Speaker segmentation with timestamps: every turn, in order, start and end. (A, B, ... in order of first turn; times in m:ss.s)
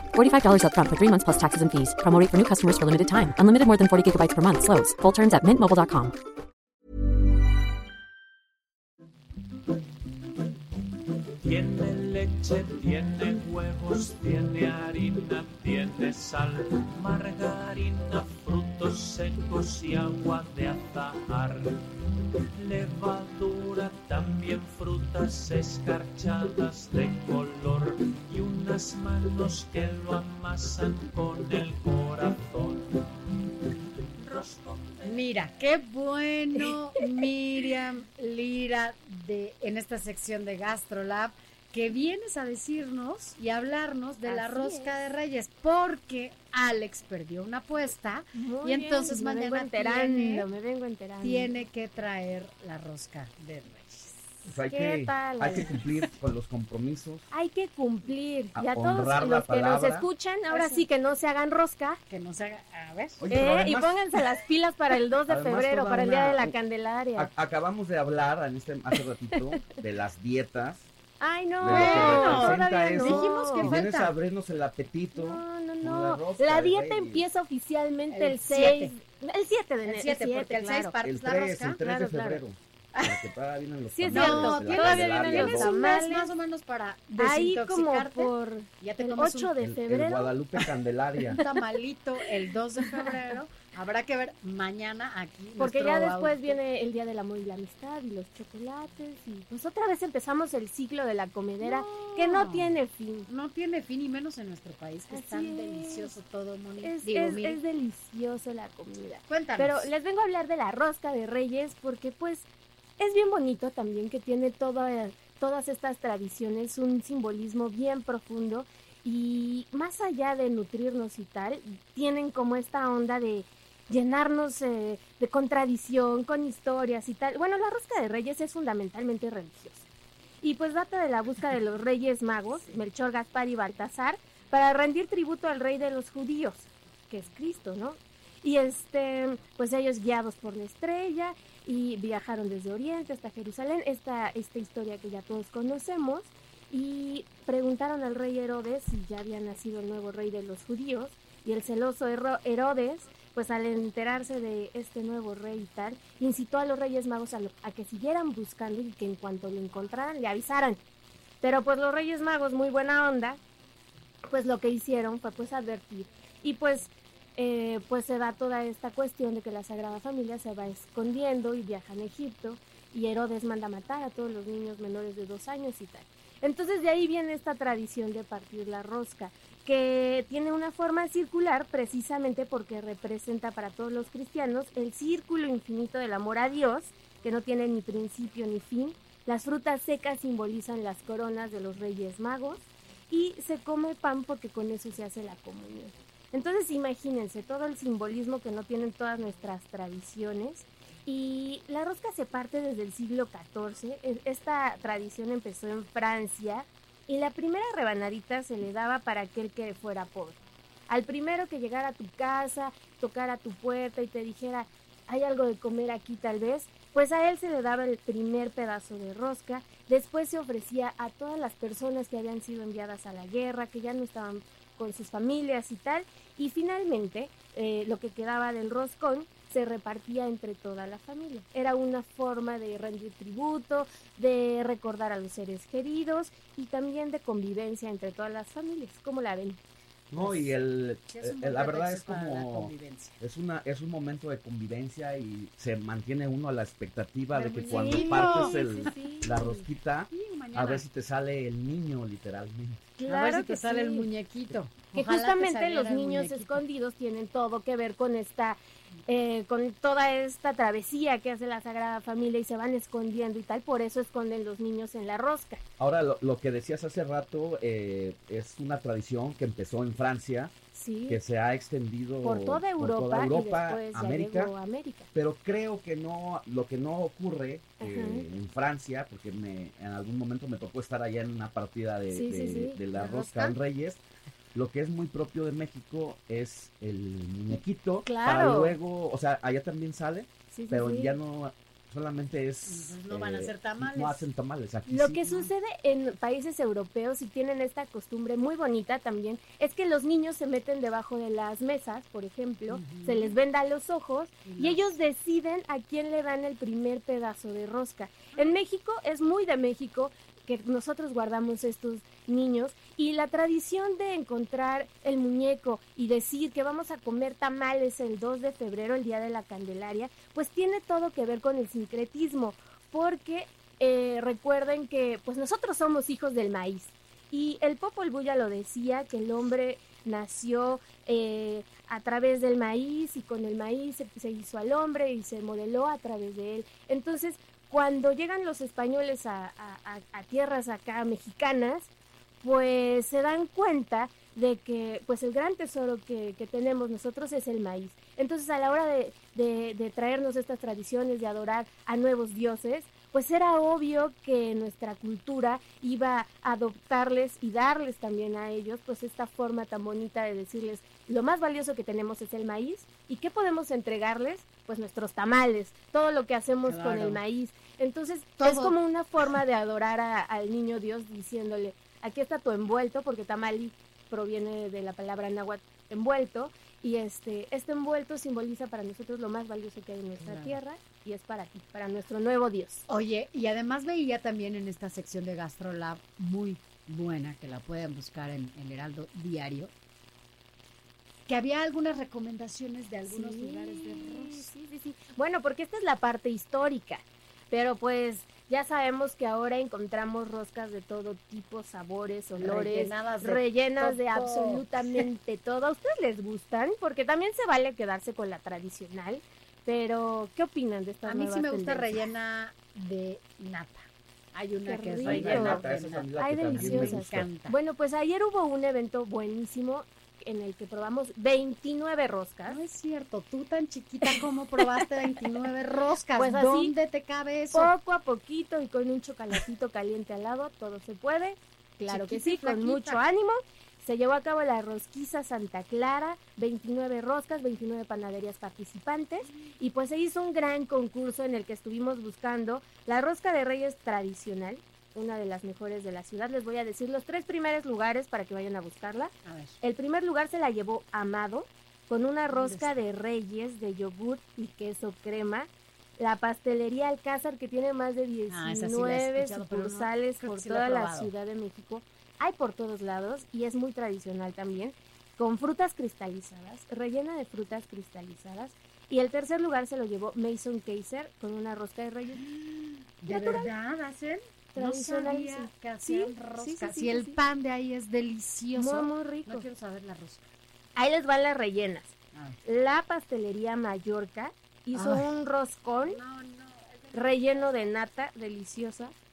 0:00.1-0:06.1 A
0:11.4-0:22.0 B
0:22.6-0:33.3 B
0:34.2-0:35.1 B
0:35.0-0:50.5 C
0:44.2-0:45.1 D
0:48.3-0:51.5 D
0:51.2-0:54.4 C
0:54.4-0:57.3 E
0:54.7-0:55.8 D
0:57.3-1:02.0 D
0:58.5-1:00.1 E
1:00.5-1:00.8 C
1:02.1-1:03.2 C
1:03.2-1:04.0 E
1:03.3-1:07.3 D
1:05.3-1:06.6 E
1:07.1-1:10.8 E
1:09.3-1:09.6 D
1:11.2-1:13.7 D
1:11.6-1:17.3 E
1:11.6-1:14.1 C
1:15.1-1:21.0 D
1:18.1-1:18.9 C
1:19.8-1:21.8 C
1:21.0-1:25.8 E
1:21.8-1:22.4 D
1:23.9-1:26.3 D
1:24.1-1:29.5 C
1:27.2-1:30.4 D
1:29.6-1:31.4 E
1:31.2-1:31.5 D
1:31.4-1:36.6 C
1:32.8-1:33.1 D
1:35.6-1:43.3 D
1:41.6-1:47.6 C
1:45.1-1:46.2 D
1:46.8-1:52.4 D
1:49.3-1:49.9 C
1:53.0-2:09.8 D
2:10.4-2:40.8 D
2:41.4-2:43.4 D
2:44.3-3:30.4 D
3:30.9-3:59.6 D
4:00.1-4:12.8 E
4:00.2-4:00.6 C
4:01.1-4:03.2 C
4:07.3-4:09.1 C
4:07.7-4:09.7 D
4:10.1-4:10.8 C
4:13.0-4:14.1 D
4:13.1-4:16.6 C
4:14.9-4:25.6 D
4:25.8-4:30.5 E
4:30.7-4:31.2 D
4:31.1-4:34.5 E
4:32.2-4:35.1 D
4:35.1-4:44.0 E
4:37.8-4:38.2 D
4:42.1-4:42.8 D
4:42.9-4:43.6 C
4:44.5-4:55.4 E
4:48.0-4:48.8 D
4:50.5-4:51.2 D
4:52.6-4:54.2 C
4:54.9-5:41.9 D
5:02.7-5:03.4 C
5:04.4-5:05.0 C
5:42.4-6:22.8 D
6:06.6-6:07.2 C
6:08.4-6:08.8 C
6:20.2-6:20.6 C
6:22.9-6:29.7 C
6:31.3-6:34.5 C
6:33.0-6:51.9 D
6:42.4-6:45.0 C
6:51.0-6:57.6 C
6:54.6-6:55.6 D
6:55.0-6:57.3 E
6:56.2-7:02.6 D
7:02.5-7:07.7 C
7:06.2-7:06.8 D
7:07.5-7:52.2 D
7:11.8-7:13.0 C
7:29.2-7:29.6 C
7:32.3-7:32.8 C
7:38.3-7:41.1 C
7:52.3-8:00.3 C
7:53.1-7:53.5 D
7:54.5-7:57.2 D
7:58.6-7:59.4 D
8:00.7-8:06.0 D
8:02.1-8:02.4 C
8:04.7-8:05.1 C
8:05.8-8:07.7 C
8:06.9-8:08.9 D